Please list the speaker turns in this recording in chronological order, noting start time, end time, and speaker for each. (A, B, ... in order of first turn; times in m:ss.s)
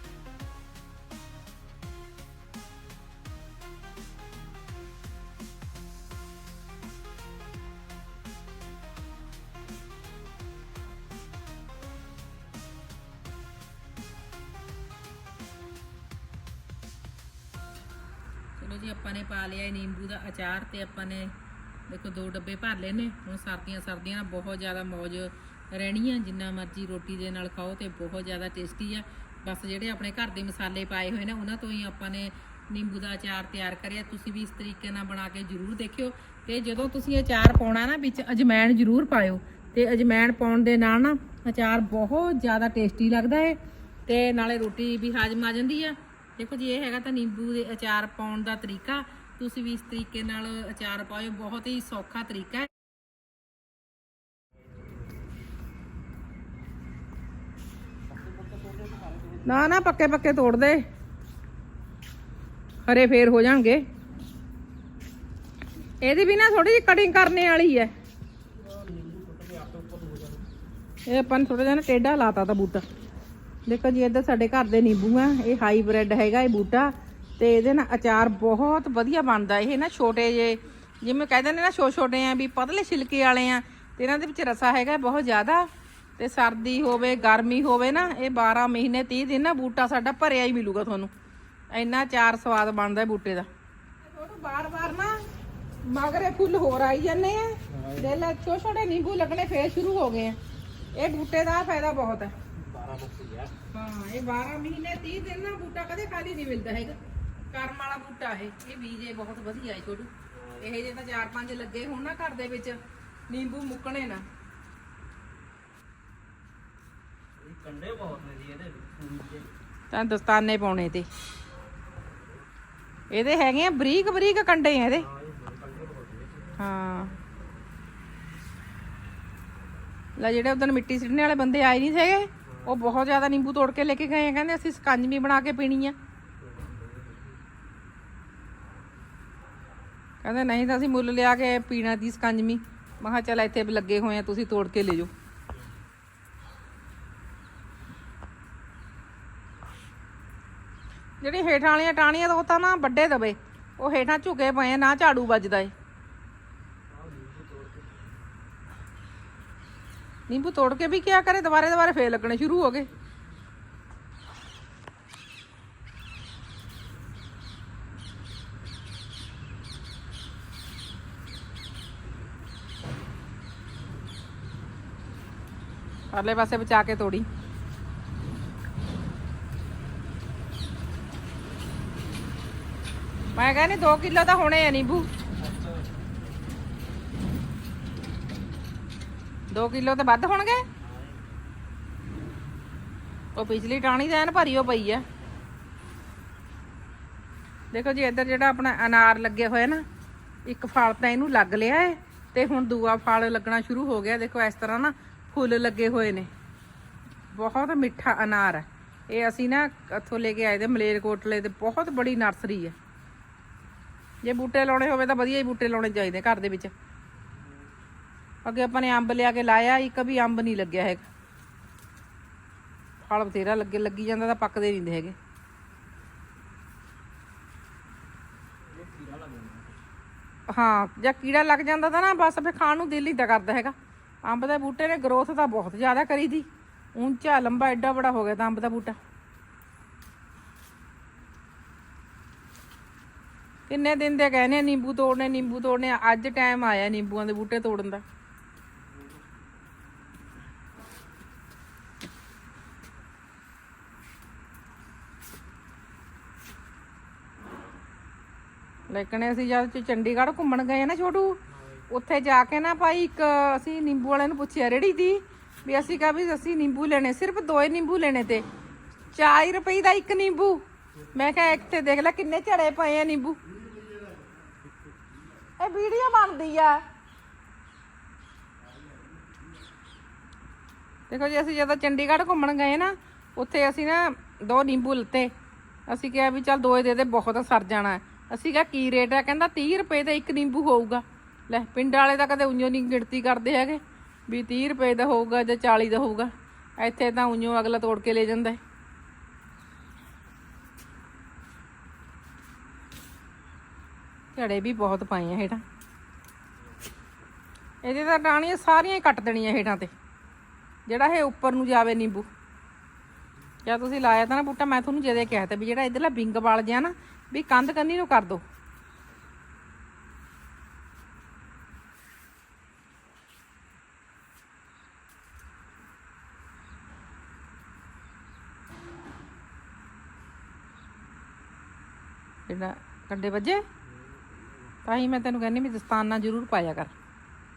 0:18.6-0:21.3 A
0:21.9-0:52.7 A
0:58.2-0:59.4 B
0:59.4-1:00.8 A
1:02.8-1:03.8 A
1:06.0-1:07.9 A
1:08.6-1:10.4 B
1:11.0-1:12.8 A
1:13.6-1:25.7 A
1:26.2-1:31.1 A
1:31.7-1:33.5 A
1:34.0-1:35.2 A
1:35.8-1:40.4 A
1:37.7-1:38.1 B
1:40.9-1:42.3 A
1:42.6-1:43.5 B
1:43.7-1:46.9 A
1:47.5-1:54.2 A
1:50.3-1:50.7 B
1:57.4-1:59.5 B
1:59.9-2:01.1 A
2:03.1-2:05.0 A
2:04.9-2:06.5 B
2:06.6-2:07.1 A
2:10.2-2:16.0 A
2:12.4-2:13.1 B
2:16.4-2:17.4 B
2:20.2-2:25.1 A
2:31.2-2:35.7 A
2:36.9-2:38.2 B
2:40.3-2:42.9 A
2:56.1-2:57.3 A
3:03.3-3:05.1 A
3:05.4-3:05.9 B
3:09.5-3:10.6 A
3:10.8-3:11.3 B
3:13.3-3:15.0 A
3:17.7-3:19.8 A
3:20.4-3:26.3 A
3:27.3-3:32.8 A
3:34.2-3:36.7 A
3:38.4-3:41.0 A
3:43.0-3:45.2 A
3:48.7-3:49.8 B
3:50.5-3:59.0 A
4:03.7-4:08.0 A
4:18.9-4:21.4 A
4:21.9-4:28.4 A
4:29.1-4:33.4 A
4:35.6-4:36.8 A
4:41.1-4:45.3 A
4:45.9-4:58.6 A
5:04.3-5:05.6 A
5:07.8-5:09.9 A
5:10.9-5:12.3 A
5:13.6-5:18.4 A
5:32.5-5:33.6 A
5:33.8-5:34.8 B
5:34.8-5:36.9 A